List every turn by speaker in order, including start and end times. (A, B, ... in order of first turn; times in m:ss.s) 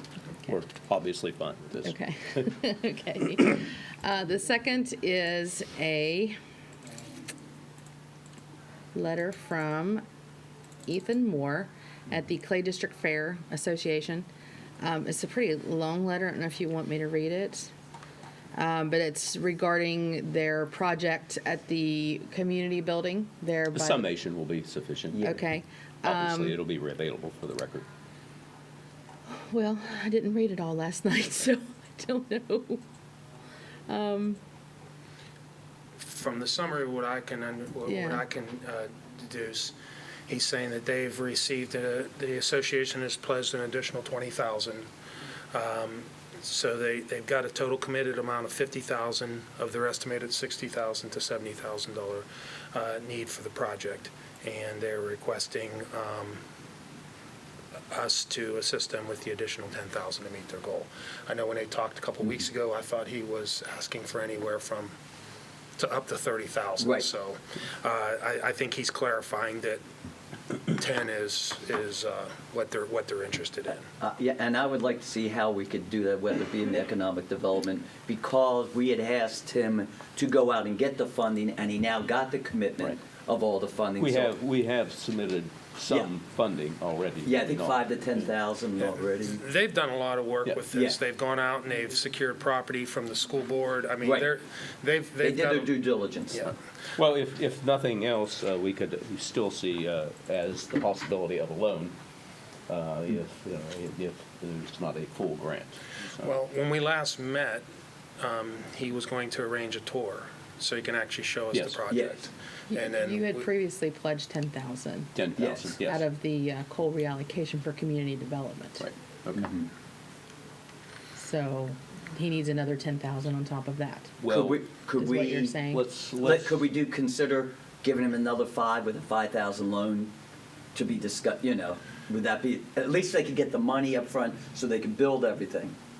0:00.5-0:02.5 A
0:01.8-0:06.4 B
0:08.9-0:10.0 B
0:10.9-0:14.3 B
0:14.8-0:17.7 B
0:18.5-0:24.0 B
0:23.7-0:25.2 A
0:25.1-0:25.4 C
0:25.2-0:26.6 B
0:26.0-0:27.8 A
0:29.3-0:32.8 B
0:33.9-0:34.4 B
0:36.0-0:39.8 D
0:37.8-0:38.2 B
0:40.3-0:44.9 D
0:45.5-0:56.4 D
0:57.9-1:05.0 D
1:05.8-1:09.8 D
1:06.8-1:07.1 C
1:10.7-1:13.8 D
1:14.0-1:24.3 C
1:24.0-1:27.8 A
1:27.2-1:29.4 C
1:29.4-1:35.7 D
1:30.7-1:31.0 C
1:34.0-1:34.3 C
1:35.2-1:36.5 C
1:36.3-1:36.5 D
1:37.0-1:41.9 A
1:42.7-1:46.2 A
1:46.2-1:47.6 D
1:48.2-1:53.4 D
1:51.5-1:51.8 A
1:52.7-1:55.1 B
1:55.1-1:56.0 A
1:55.4-1:55.7 C
1:55.8-1:58.8 B
1:58.8-1:59.5 A
1:59.3-1:59.7 C
2:01.2-2:04.2 B
2:04.2-2:04.6 A
2:04.3-2:05.6 C
2:05.0-2:05.8 B
2:05.7-2:06.6 A
2:06.2-2:10.1 C
2:10.7-2:15.7 C